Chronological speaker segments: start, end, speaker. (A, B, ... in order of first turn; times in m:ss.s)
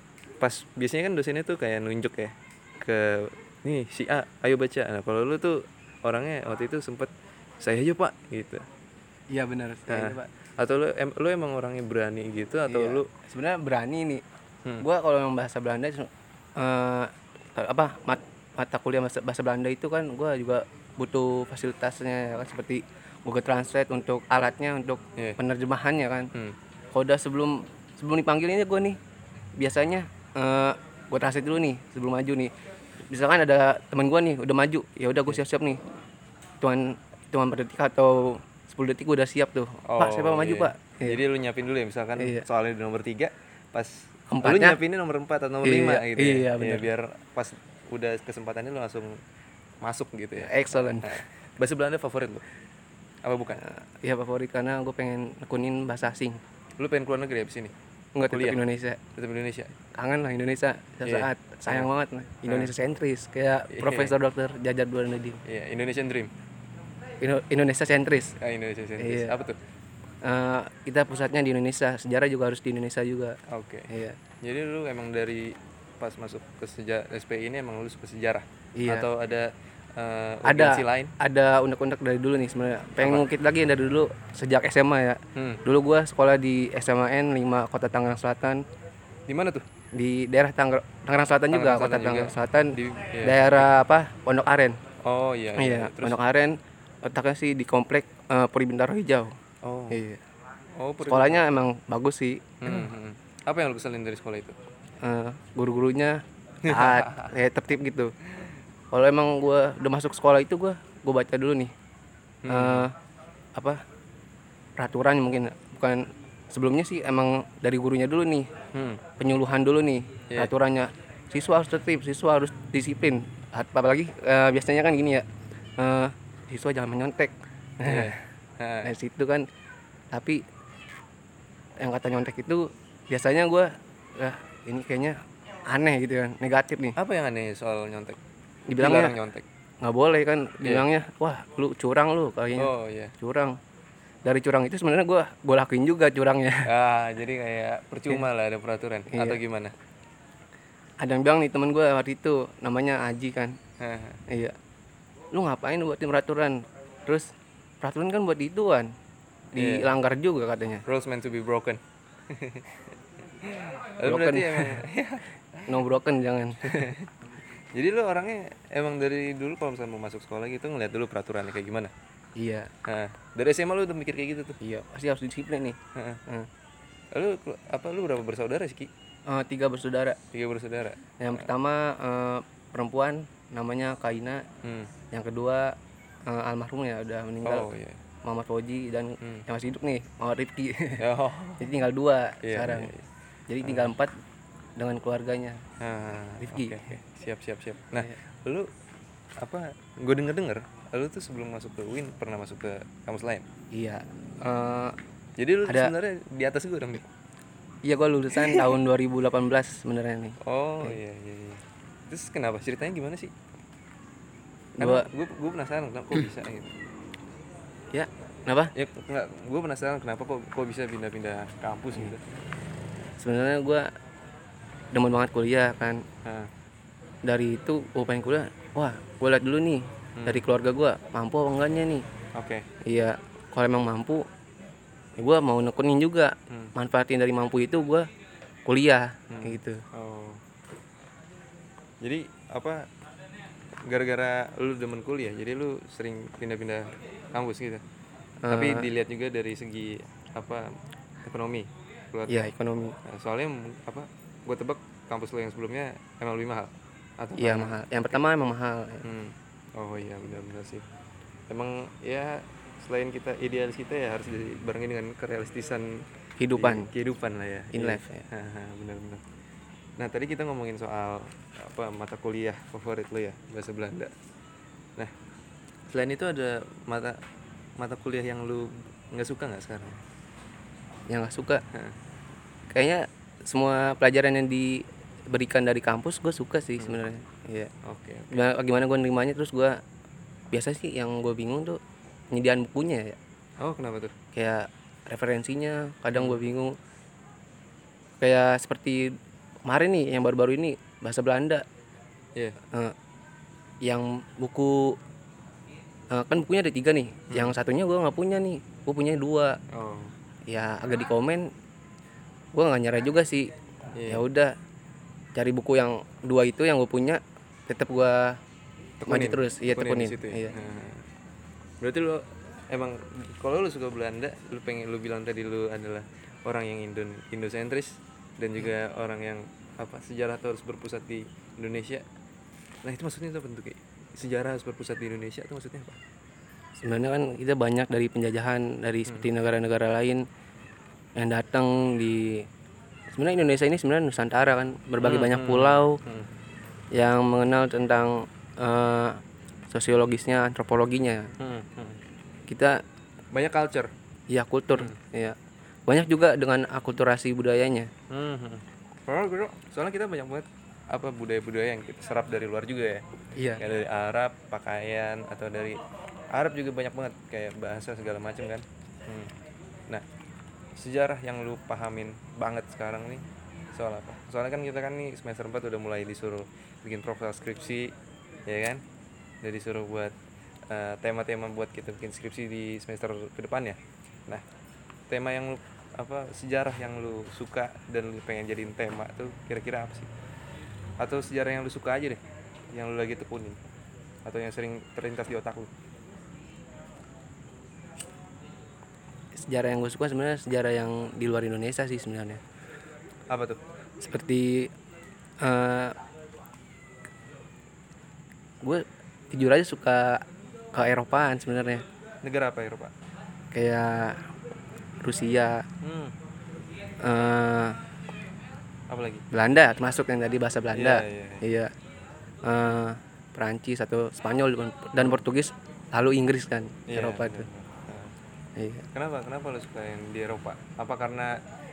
0:00.4-0:08.7 A
0:09.3-0:10.3 B
0:09.9-0:13.1 A
0:12.7-0:14.2 B
0:14.8-0:26.3 B
0:26.9-0:29.0 B
0:29.6-0:32.5 B
0:33.1-0:35.8 B
0:36.6-0:41.2 B
0:39.9-0:49.2 A
0:42.2-0:42.4 B
0:44.3-0:44.8 B
0:45.6-0:46.9 B
0:49.8-0:52.4 A
0:50.4-0:51.2 B
0:53.2-0:53.6 A
0:53.6-0:56.4 B
0:56.8-0:57.7 A
0:58.2-0:59.0 B
0:58.3-0:58.6 A
0:59.2-0:59.7 A
1:00.0-1:05.4 B
1:01.0-1:01.9 A
1:02.5-1:02.7 A
1:03.7-1:04.2 A
1:05.4-1:06.3 A
1:07.2-1:08.4 B
1:08.4-1:09.6 A
1:09.0-1:09.4 B
1:10.2-1:13.4 B
1:13.5-1:13.9 A
1:13.9-1:14.2 B
1:14.4-1:21.1 A
1:18.8-1:19.1 B
1:20.4-1:28.6 B
1:23.0-1:23.3 A
1:25.4-1:25.6 A
1:29.3-1:29.7 A
1:29.9-1:34.8 B
1:31.5-1:33.7 A
1:35.0-1:36.2 A
1:35.6-1:39.3 B
1:39.6-1:40.0 A
1:39.9-1:40.2 B
1:40.8-1:41.5 A
1:41.0-1:42.9 B
1:42.6-1:44.6 A
1:45.0-1:48.1 B
1:46.6-1:47.3 A
1:48.9-1:51.7 B
1:52.4-1:52.9 A
1:52.5-1:53.0 B
1:53.6-1:53.8 B
1:54.8-1:58.5 B
1:58.7-1:59.0 A
1:59.2-2:08.2 B
2:07.8-2:08.9 A
2:08.8-2:09.5 B
2:10.1-2:10.4 B
2:11.8-2:17.0 B
2:17.0-2:18.2 A
2:18.7-2:19.2 B
2:18.8-2:19.5 A
2:19.8-2:23.6 B
2:20.6-2:20.9 A
2:22.6-2:23.1 A
2:24.2-2:26.7 B
2:26.6-2:29.8 A
2:29.1-2:29.4 B
2:31.0-2:33.6 B
2:33.8-2:34.2 A
2:34.3-2:34.5 B
2:35.3-2:38.9 B
2:39.5-2:40.8 B
2:39.6-2:40.0 A
2:40.9-2:45.8 A
2:44.0-2:44.8 B
2:45.7-2:46.9 B
2:46.6-2:47.1 A
2:47.7-2:51.9 A
2:52.4-2:52.7 B
2:52.8-2:54.6 A
2:54.6-2:56.5 B
2:55.9-2:56.2 A
2:57.1-2:58.9 A
2:59.3-3:00.2 B
3:00.3-3:01.4 A
3:01.2-3:04.4 B
3:04.6-3:04.9 A
3:05.1-3:07.7 B
3:07.4-3:08.0 A
3:08.2-3:11.0 B
3:11.0-3:11.7 A
3:11.6-3:12.9 B
3:12.4-3:13.1 A
3:13.5-3:14.1 B
3:13.6-3:13.9 A
3:14.8-3:15.6 B
3:15.8-3:18.7 A
3:16.4-3:16.9 B
3:19.4-3:23.5 A
3:23.7-3:25.0 B
3:25.4-3:27.1 A
3:25.6-3:25.9 B
3:27.8-3:30.9 B
3:28.4-3:28.8 A
3:30.4-3:33.3 A
3:34.8-3:35.1 B
3:34.8-3:36.7 A
3:37.9-3:38.7 B
3:38.8-3:42.2 A
3:43.2-3:43.9 B
3:44.9-3:46.0 B
3:46.2-3:46.5 A
3:47.2-3:52.0 B
3:50.2-3:50.5 A
3:52.4-3:52.7 A
3:52.8-3:54.2 B
3:55.2-3:58.1 B
3:58.7-3:59.8 B
3:59.3-4:00.4 A
4:02.0-4:02.9 A
4:03.8-4:07.8 A
4:08.4-4:08.9 B
4:08.5-4:12.5 A
4:12.3-4:13.0 B
4:13.0-4:18.2 A
4:17.4-4:19.0 B
4:19.0-4:20.9 A
4:21.5-4:29.2 A
4:26.4-4:26.9 B
4:27.7-4:28.3 B
4:30.0-4:34.1 A
4:35.9-4:37.2 A
4:37.8-4:40.0 A
4:41.1-4:41.6 B
4:42.7-4:47.7 B
4:47.8-4:48.5 A
4:48.3-4:49.8 B
4:50.5-4:51.8 B
4:52.3-4:53.2 B
4:53.6-4:54.1 A
4:54.4-4:56.8 B
4:56.1-4:56.4 A
4:58.2-5:01.6 B
5:03.8-5:05.0 B
5:06.1-5:09.6 B
5:07.3-5:07.6 A
5:09.7-5:10.1 A
5:10.5-5:11.5 B
5:12.5-5:13.5 B
5:14.0-5:14.2 A
5:14.1-5:14.5 B
5:15.4-5:18.4 B
5:19.0-5:21.1 A
5:19.1-5:20.5 B
5:21.8-5:32.0 A
5:32.8-5:36.0 A
5:36.8-5:40.2 B
5:41.2-5:42.4 B
5:43.1-5:46.0 B
5:45.0-5:46.3 A
5:46.9-5:51.3 B
5:51.4-5:52.0 A
5:52.5-5:52.8 B
5:53.3-5:53.9 A
5:54.3-5:57.9 B
5:58.1-6:03.0 A
6:03.4-6:03.6 B
6:03.6-6:05.8 A
6:06.3-6:09.3 A
6:10.8-6:13.2 A
6:13.7-6:18.0 A
6:18.5-6:18.8 A
6:19.4-6:20.2 A
6:20.7-6:24.4 A
6:25.1-6:30.1 A
6:31.0-6:32.2 A
6:32.7-6:33.6 A
6:34.2-6:35.7 A
6:39.4-6:42.4 B
6:43.3-6:43.6 A
6:44.0-6:44.7 B
6:45.4-6:46.0 B
6:48.6-6:51.8 B
6:52.2-6:52.9 A
6:53.5-6:54.3 B
6:55.0-6:55.6 B
6:55.8-6:56.1 A
6:57.0-6:57.8 B
6:58.9-6:59.3 A
6:59.3-7:01.7 B
7:00.7-7:01.4 A
7:02.4-7:07.5 B
7:06.9-7:08.1 A
7:08.6-7:08.8 B
7:08.9-7:11.4 A